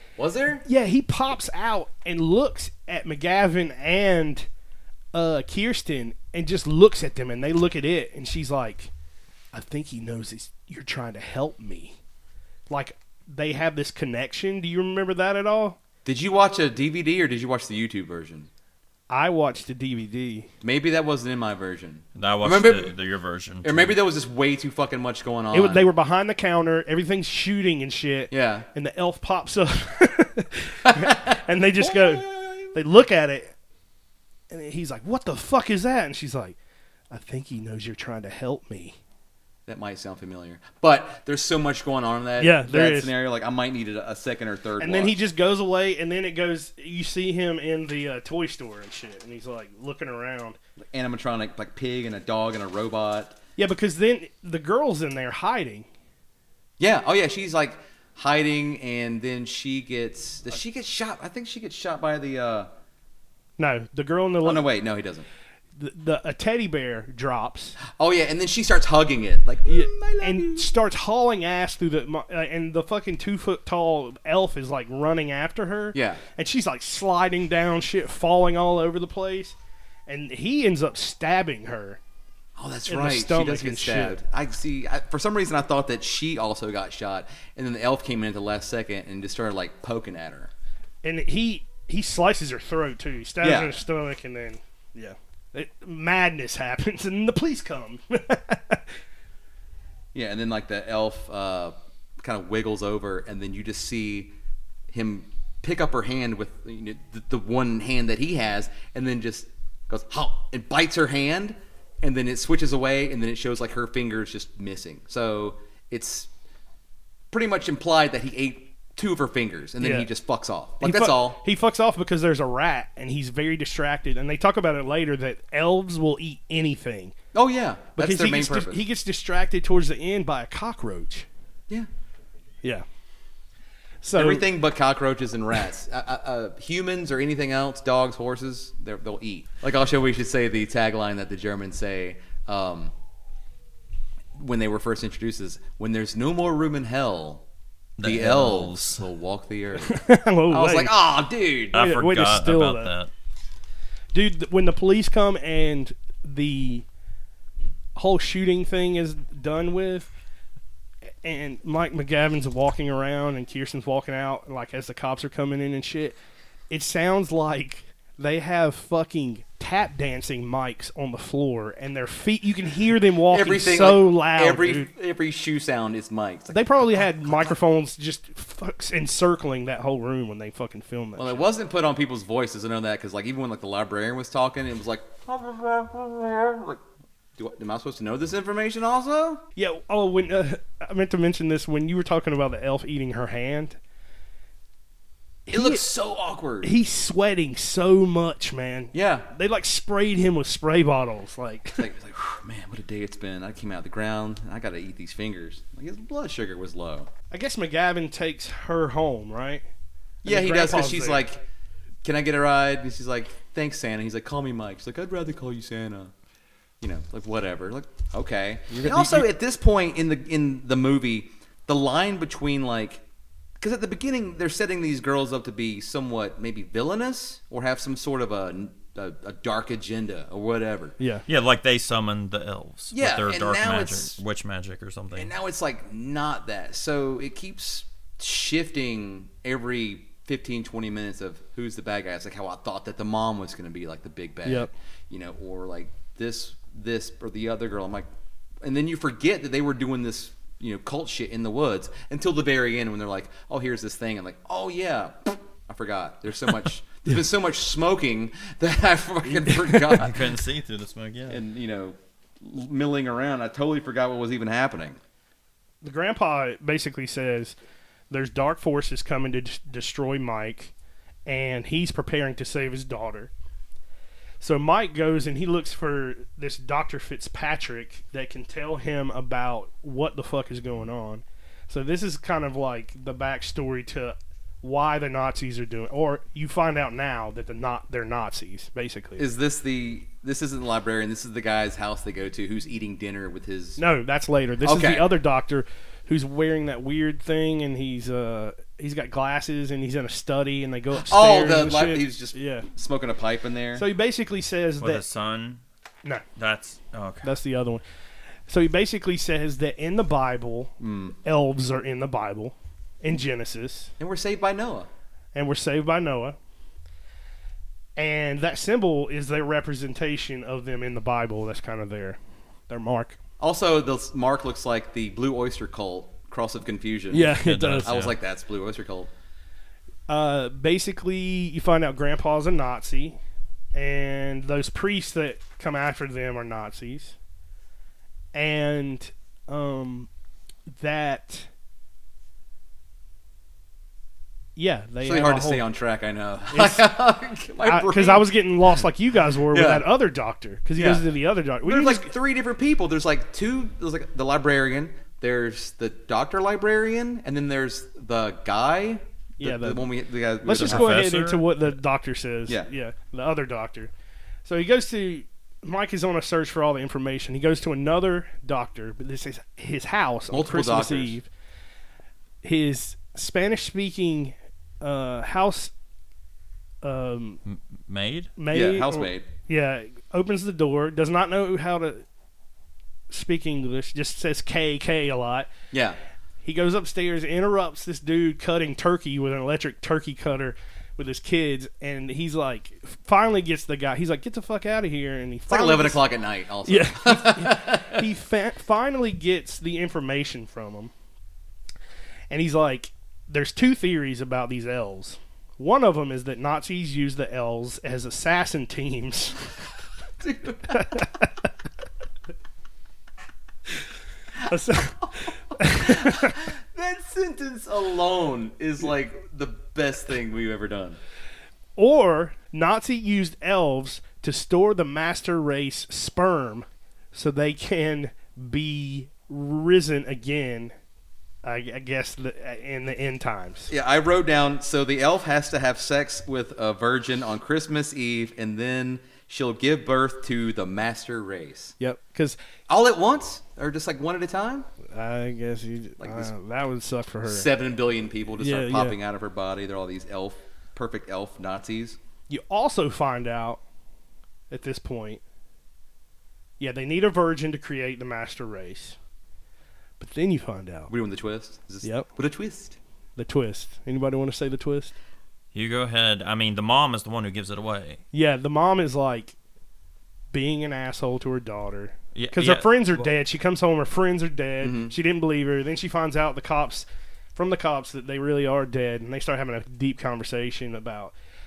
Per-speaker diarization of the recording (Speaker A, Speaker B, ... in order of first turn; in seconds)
Speaker A: 0.2-0.6, 16.0-18.5, 20.6-22.9, 23.6-25.9, 28.3-28.7, 30.9-32.7, 39.7-45.1, 50.8-53.4, 56.8-62.7, 64.4-65.2, 67.8-70.7, 75.9-76.2, 82.5-90.5, 93.4-93.7, 100.1-104.3, 104.9-116.3, 117.3-121.4, 127.3-128.8, 134.1-142.9, 144.3-147.4, 148.0-150.0, 150.5-151.8, 173.3-177.6, 181.2-186.8, 187.3-189.4, 195.5-196.7, 198.9-199.3, 201.7-207.1, 210.2-211.4, 212.0-216.1, 216.8-223.0, 223.6-230.9, 232.9-234.2, 235.1-248.1, 248.6-260.3, 261.3-265.0, 289.2-293.8, 294.6-295.1, 300.9-303.8, 310.8-311.1, 314.0-314.9, 323.4-329.1, 345.0-348.3, 349.5-349.9, 350.8-351.1, 351.6-361.1, 370.3-371.2, 378.5-379.3, 385.7-386.0, 395.5-398.1, 410.2-411.0, 414.3-421.0, 433.7-441.8, 442.7-444.7, 446.0-446.3, 447.2-452.0, 460.9-462.8, 474.6-474.9
Speaker B: 0.6-4.5, 5.1-8.9, 9.5-12.0, 12.7-15.8, 19.1-20.5, 25.5-33.5, 34.5-36.5, 37.1-39.0, 42.4-43.1, 44.8-50.6, 53.6-55.9, 63.6-64.7, 65.8-67.8, 69.7-79.5, 80.1-82.0, 82.9-84.2, 91.0-98.9, 119.8-120.1, 120.8-127.1, 128.0-131.3, 134.0-134.5, 149.8-150.9, 151.7-152.9, 154.1-156.8, 157.9-160.1, 161.2-166.2, 166.7-174.9, 176.5-181.4, 189.6-193.8, 195.5-195.8, 196.6-201.9, 207.3-209.6, 210.2-211.2, 218.7-219.3, 231.0-231.2, 244.4-244.7, 259.3-260.0, 265.8-267.5, 268.1-270.7, 271.2-273.3, 274.4-289.2, 293.8-302.7, 303.7-305.0, 307.2-307.8, 308.5-310.7, 311.2-313.9, 315.3-316.4, 317.9-323.2, 327.1-327.9, 330.1-333.2, 333.7-337.1, 338.3-340.1, 340.7-341.5, 344.6-345.7, 346.5-346.9, 347.6-352.1, 359.4-359.9, 360.4-363.9, 364.4-371.3, 372.4-375.7, 376.8-377.4, 378.4-382.0, 383.1-385.5, 386.4-396.0, 396.6-400.9, 402.3-409.5, 410.7-411.3, 414.4-416.4, 421.8-430.7, 431.4-433.7, 441.8-442.4, 444.9-447.5, 448.4-449.0, 452.3-453.6, 454.5-455.2, 456.6-459.0, 460.0-460.9, 461.8-462.1, 463.2-464.9, 468.1-469.3, 470.3-481.1
Speaker C: 22.1-23.9, 148.0-149.0, 151.7-153.1, 231.3-235.3, 259.9-261.4, 304.8-305.6, 306.4-307.3, 327.4-328.1, 360.5-361.6, 377.5-378.3, 465.5-468.0, 472.1-473.0